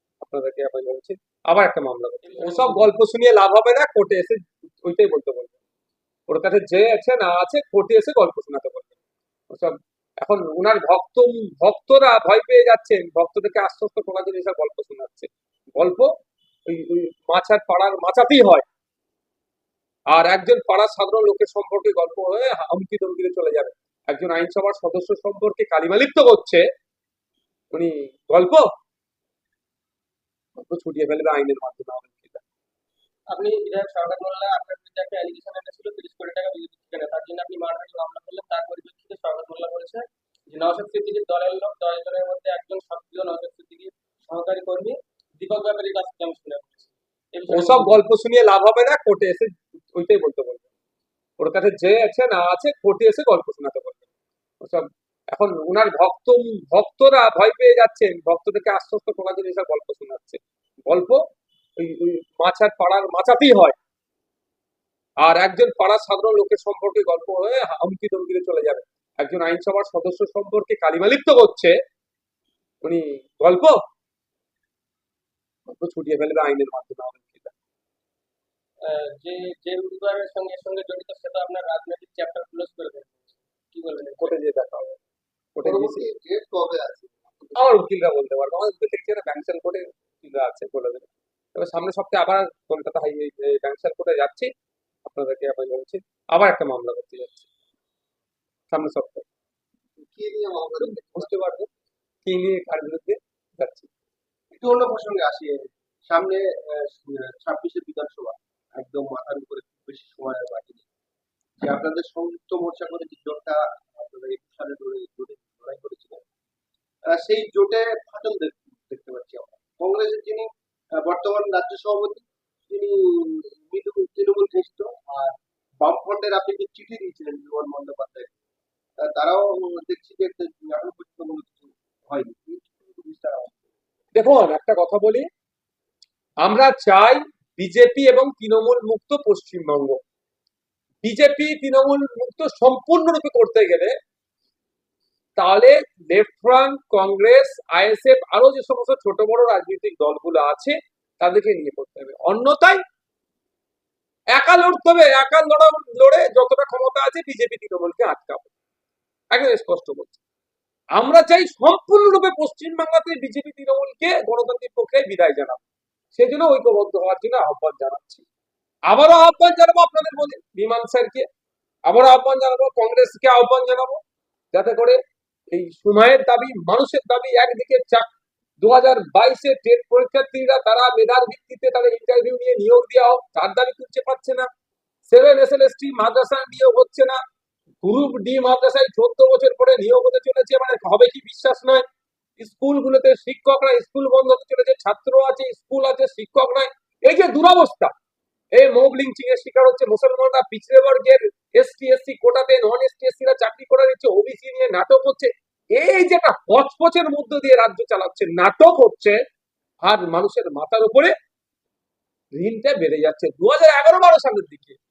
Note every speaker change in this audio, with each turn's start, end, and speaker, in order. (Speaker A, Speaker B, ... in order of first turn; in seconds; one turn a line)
Speaker A: 0.2-5.6
Speaker B: 2.2-2.9
Speaker A: 6.3-9.0
Speaker A: 9.5-16.1
Speaker A: 16.7-18.6
Speaker A: 20.1-26.6
Speaker A: 27.7-28.7
Speaker A: 30.6-32.4
Speaker B: 33.3-48.0
Speaker A: 47.5-50.7
Speaker A: 51.4-54.1
Speaker A: 54.6-61.2
Speaker A: 61.8-63.8
Speaker A: 65.2-71.7
Speaker A: 72.8-73.8
Speaker A: 75.7-77.5
Speaker B: 78.8-84.3
Speaker A: 84.2-85.0
Speaker A: 85.5-86.1
Speaker C: 85.6-87.6
Speaker A: 87.5-94.5
Speaker A: 95.0-97.5
Speaker A: 98.7-99.3
Speaker C: 100.0-101.4
Speaker A: 100.8-101.7
Speaker A: 102.2-103.9
Speaker C: 104.5-110.8
Speaker C: 111.6-116.2
Speaker C: 117.1-120.5
Speaker C: 121.0-128.3
Speaker C: 129.0-133.7
Speaker A: 134.1-135.3
Speaker A: 136.4-140.0
Speaker A: 141.0-143.9
Speaker A: 145.4-152.8
Speaker A: 154.3-158.5
Speaker A: 159.3-160.2
Speaker A: 161.0-165.6
Speaker A: 166.1-168.2
Speaker A: 168.9-171.3
Speaker A: 171.9-174.0
Speaker A: 174.5-175.0
Speaker A: 175.5-178.1
Speaker A: 178.6-184.5
Speaker A: 185.1-187.2
Speaker A: 187.8-191.8
Speaker A: 192.4-197.9
Speaker A: 198.6-209.2
Speaker A: 209.8-211.1
Speaker A: 212.3-214.8